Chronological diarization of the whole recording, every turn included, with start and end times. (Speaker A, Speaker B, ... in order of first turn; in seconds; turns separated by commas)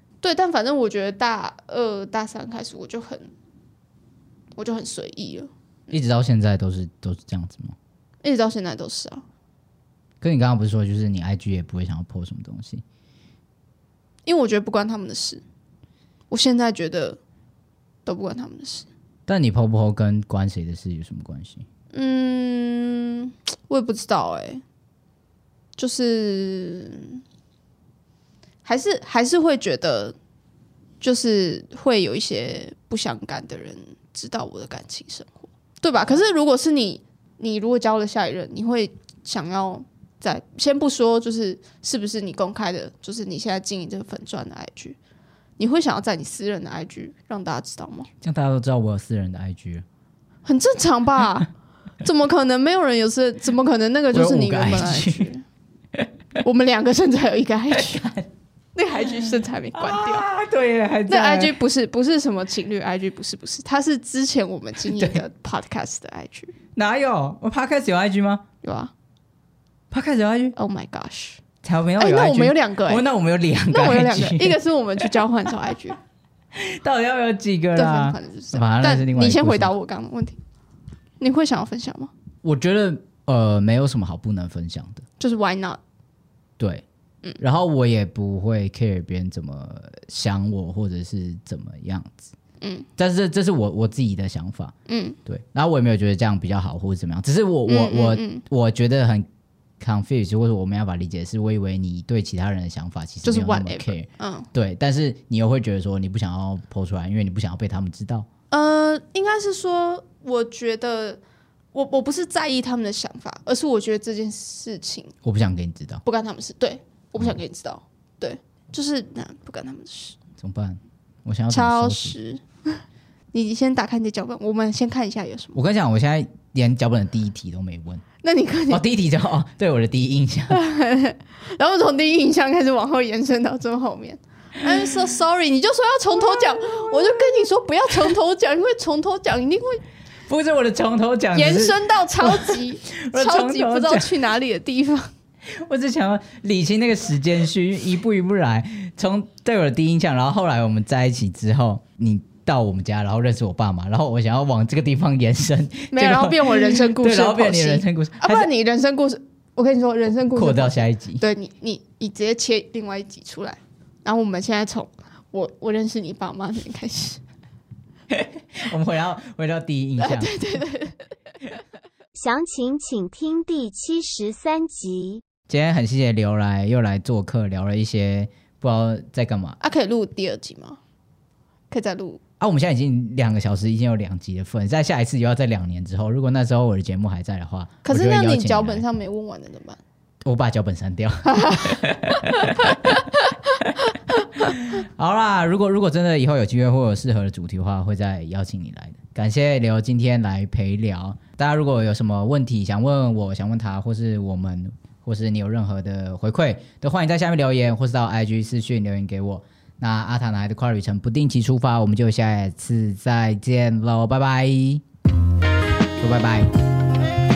Speaker A: 0.2-3.3, Speaker A: 4.6-5.5, Speaker B: 5.9-7.8, Speaker A: 8.2-9.2, Speaker B: 10.2-12.8, Speaker A: 14.3-15.4, Speaker A: 16.3-17.2, Speaker A: 18.1-18.9, Speaker B: 19.3-21.6, Speaker A: 21.9-24.6, Speaker A: 25.8-27.2, Speaker A: 28.6-30.2, Speaker A: 31.0-45.0, Speaker A: 45.6-48.1, Speaker B: 48.2-49.8, Speaker A: 50.5-51.5, Speaker A: 52.0-55.4, Speaker B: 54.1-55.3, Speaker A: 56.4-58.1, Speaker B: 57.7-58.3, Speaker A: 58.8-60.3, Speaker B: 59.0-61.6, Speaker A: 61.1-66.5, Speaker B: 64.9-65.2, Speaker B: 66.8-68.4, Speaker A: 68.6-68.9, Speaker B: 69.9-70.5, Speaker A: 70.5-71.4, Speaker B: 71.6-75.1, Speaker A: 72.0-73.0, Speaker A: 73.7-76.0, Speaker B: 76.5-79.7, Speaker A: 77.7-80.4, Speaker A: 81.2-82.1, Speaker B: 82.4-85.0, Speaker A: 85.2-85.8, Speaker B: 86.6-86.8, Speaker B: 87.4-92.3, Speaker A: 92.6-92.9, Speaker B: 93.0-94.7, Speaker A: 94.9-95.2, Speaker B: 95.3-99.3, Speaker A: 97.7-98.4, Speaker B: 99.8-108.3, Speaker A: 103.2-104.5, Speaker A: 108.5-111.2, Speaker A: 111.7-115.1, Speaker B: 115.2-116.0, Speaker A: 116.0-120.2, Speaker B: 120.4-122.2, Speaker A: 121.5-122.8, Speaker A: 123.3-125.6, Speaker B: 125.5-128.0, Speaker A: 128.2-128.8, Speaker B: 128.7-130.6, Speaker A: 130.5-139.8, Speaker B: 136.3-137.5, Speaker B: 140.3-144.1, Speaker A: 141.3-145.1, Speaker B: 145.5-158.5, Speaker A: 155.9-167.2, Speaker B: 160.3-161.2, Speaker B: 168.1-170.4, Speaker A: 170.0-171.0, Speaker C: 172.2-175.2, Speaker B: 175.5-179.6, Speaker A: 179.6-180.8, Speaker A: 181.7-182.2, Speaker B: 182.4-188.8, Speaker A: 187.8-189.8, Speaker B: 190.2-193.0, Speaker A: 191.3-193.3, Speaker B: 194.4-214.8, Speaker B: 216.0-216.5